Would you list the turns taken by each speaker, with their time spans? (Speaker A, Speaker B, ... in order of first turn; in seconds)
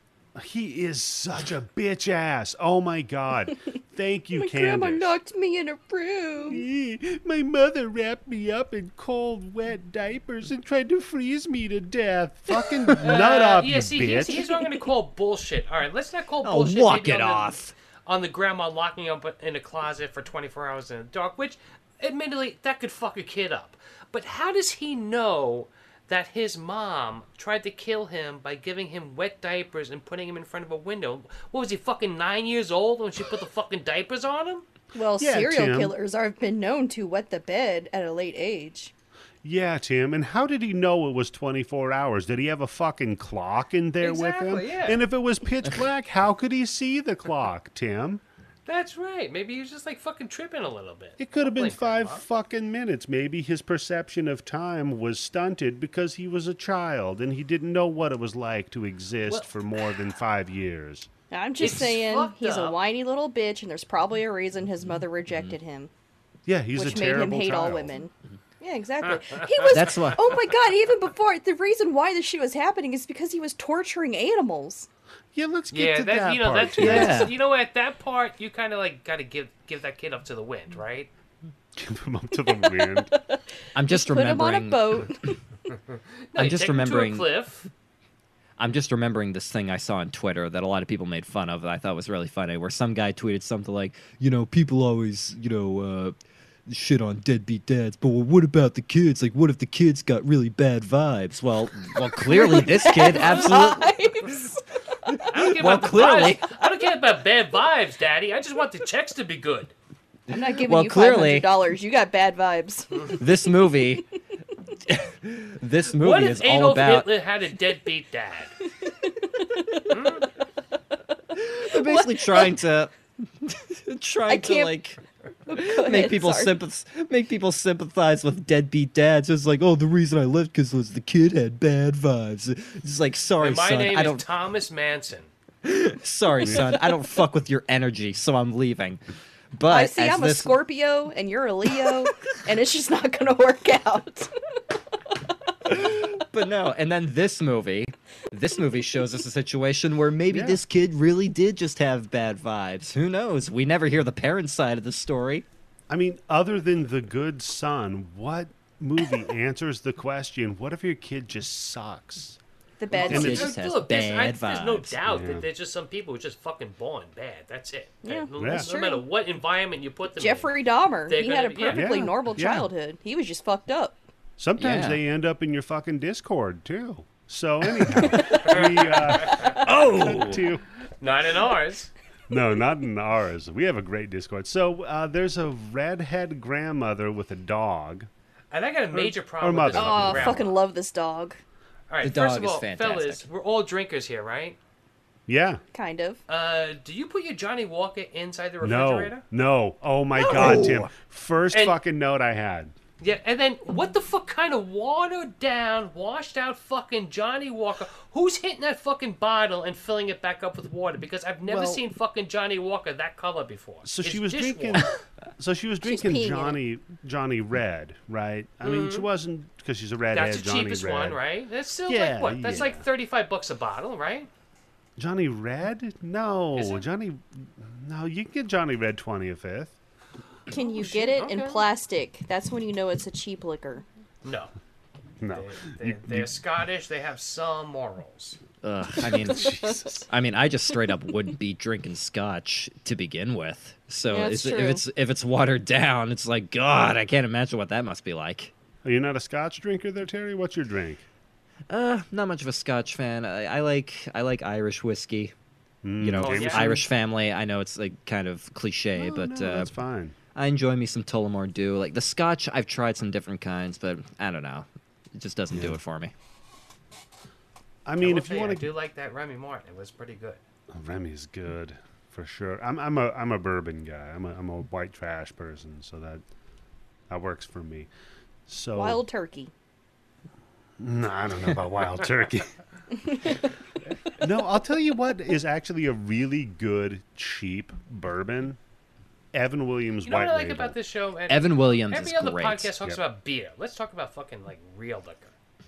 Speaker A: 0.3-5.2, 6.5-14.4, 35.2-35.9, 39.4-48.2, 51.2-61.1, 66.5-67.9, 75.3-77.3, 81.8-83.1, 136.4-136.7, 150.3-150.6, 155.9-162.4, 163.1-163.5, 165.1-165.5, 168.4-168.7, 171.7-172.7, 174.4-180.6, 182.3-188.1, 188.9-190.4, 195.3-195.6, 198.6-202.7, 211.5-211.8, 213.8-221.2, 221.9-222.8, 225.0-229.8, 235.2-236.3, 239.0-240.1, 248.8-251.0, 255.8-256.8, 258.9-260.1, 265.5-265.8, 267.9-268.7, 270.7-276.2, 277.1-277.9, 278.5-279.0, 280.8-282.6, 284.2-288.6, 289.3-290.8
Speaker B: 4.4-6.6, 14.4-14.8, 34.9-38.9, 61.3-65.9, 66.7-74.9, 82.5-85.4, 102.2-104.6, 110.3-113.2, 118.8-120.0, 121.7-122.6, 124.3-124.7, 125.5-126.5, 139.7-144.3, 162.8-163.6, 168.0-169.0, 170.2-174.0, 177.9-178.6, 189.7-191.4, 195.7-196.2, 215.8-216.6, 230.5-233.8, 244.1-244.8, 278.7-279.5, 283.0-283.4
Speaker C: 13.0-34.6, 44.0-45.0, 48.6-52.2, 61.6-62.8, 75.7-81.1, 85.9-87.7, 105.3-109.7, 116.0-118.5, 119.9-120.3, 133.4-135.3, 162.9-172.0, 178.2-179.7, 181.0-181.9, 188.5-190.6, 191.9-194.6, 196.3-199.2, 201.5-201.8, 203.0-214.9, 218.6-219.1, 220.1-224.3, 226.6-226.8, 230.5-231.7, 234.2-234.5, 235.3-238.4, 256.2-256.7, 268.0-270.4, 290.0-295.3
Speaker D: 16.4-17.7, 69.7-70.3, 76.8-77.3, 83.7-85.1, 86.3-87.3, 88.6-96.1, 96.7-104.3, 105.0-106.5, 110.3-111.5, 113.1-114.0, 114.8-117.1, 121.3-134.2, 135.6-139.0, 139.5-140.6, 141.8-142.1, 145.7-155.4, 162.9-165.0, 174.6-175.0, 179.7-180.4, 192.0-193.2, 200.3-200.8, 238.6-239.5, 240.1-248.5, 251.7-255.3, 256.0-259.7, 260.3-266.1, 291.3-292.7